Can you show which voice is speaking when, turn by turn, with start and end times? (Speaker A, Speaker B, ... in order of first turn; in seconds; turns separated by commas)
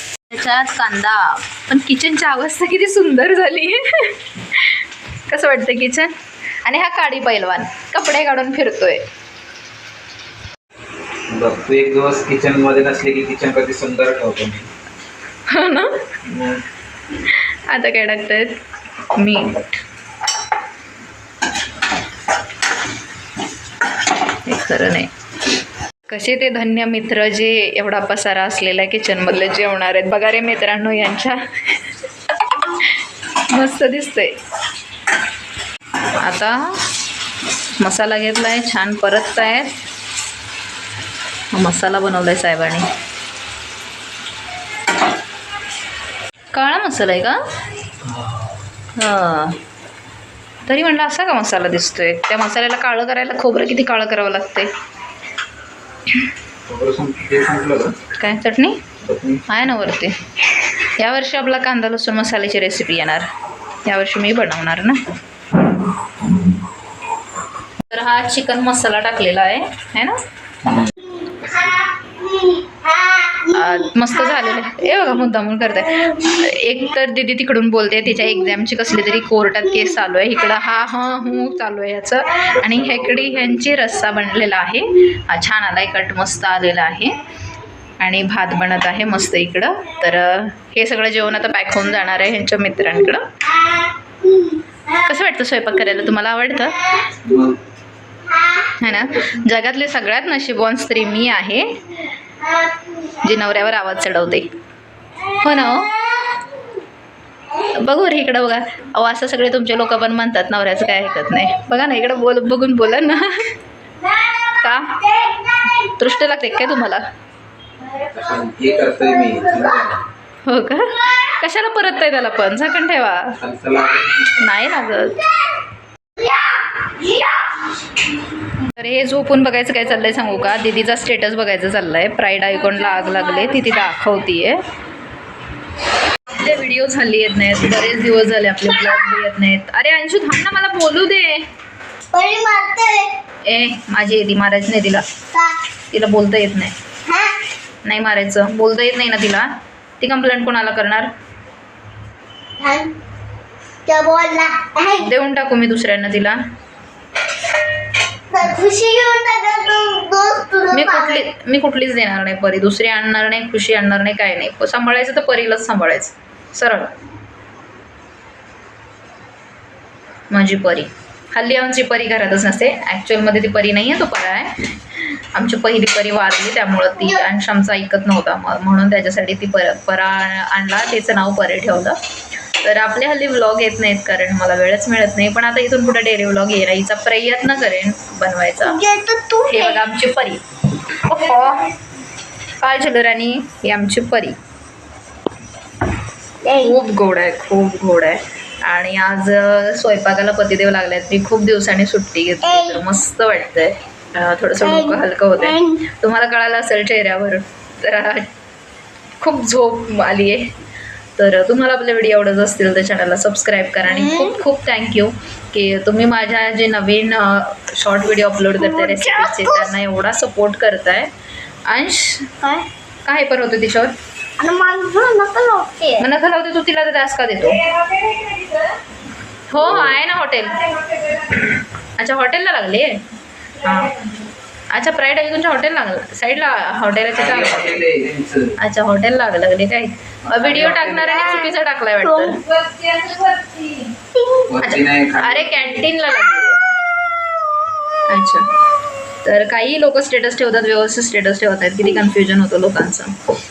Speaker A: 0.3-6.1, Speaker A: 6.7-9.0, Speaker B: 11.3-14.7, Speaker A: 15.5-15.9, Speaker B: 16.3-16.6, Speaker A: 17.2-18.6, Speaker A: 19.2-19.8, Speaker A: 24.5-25.1, Speaker A: 26.1-31.8, Speaker A: 33.5-34.3, Speaker A: 36.2-36.5, Speaker A: 37.8-39.7, Speaker A: 41.5-42.9, Speaker A: 46.5-47.4, Speaker B: 48.1-48.4, Speaker A: 49.0-49.6, Speaker A: 50.6-54.7, Speaker B: 56.7-58.0, Speaker A: 58.2-58.8, Speaker B: 59.0-59.4, Speaker A: 59.5-60.1, Speaker A: 61.0-63.3, Speaker A: 63.9-65.0, Speaker A: 67.9-70.2, Speaker B: 70.7-70.9, Speaker C: 71.2-73.5, Speaker A: 73.5-87.2, Speaker B: 82.6-83.6, Speaker A: 88.0-93.3, Speaker C: 93.6-94.6, Speaker A: 94.9-97.0, Speaker B: 97.2-97.6, Speaker C: 98.3-98.7, Speaker A: 98.8-101.8, Speaker C: 102.4-103.2, Speaker A: 103.2-104.5, Speaker A: 105.3-106.0, Speaker A: 107.6-113.5, Speaker A: 114.1-115.2, Speaker C: 115.2-115.8, Speaker A: 115.7-117.0, Speaker B: 118.0-120.0, Speaker A: 120.5-123.4, Speaker B: 123.4-124.4, Speaker A: 124.4-125.2, Speaker A: 128.6-134.6, Speaker A: 136.3-141.4, Speaker C: 142.1-143.1, Speaker A: 143.5-145.0, Speaker A: 145.9-146.8, Speaker C: 147.1-147.3, Speaker A: 147.8-149.5, Speaker A: 150.0-151.1, Speaker C: 152.6-152.9, Speaker C: 153.9-155.1, Speaker A: 155.0-156.4, Speaker C: 158.3-161.2, Speaker A: 160.7-166.9, Speaker A: 170.3-174.7, Speaker A: 175.3-182.0, Speaker C: 177.0-177.2, Speaker A: 182.6-188.8, Speaker C: 188.6-189.8, Speaker A: 189.5-191.7, Speaker A: 192.6-194.4, Speaker C: 196.4-196.8, Speaker A: 196.6-208.3, Speaker C: 202.4-202.8, Speaker C: 204.6-205.8, Speaker A: 209.2-210.4, Speaker A: 211.2-221.1, Speaker C: 213.8-214.4, Speaker C: 218.6-219.7, Speaker A: 221.7-222.3, Speaker A: 223.1-223.9, Speaker C: 224.4-226.1, Speaker A: 226.0-227.6, Speaker A: 229.5-232.9, Speaker B: 229.6-229.9, Speaker A: 233.6-234.0, Speaker A: 234.7-237.8, Speaker B: 237.1-238.6, Speaker A: 238.6-243.9, Speaker B: 240.3-241.2, Speaker C: 241.1-242.4, Speaker C: 244.2-244.5, Speaker B: 244.5-245.9, Speaker A: 244.6-246.6, Speaker A: 248.1-248.5, Speaker A: 249.2-253.1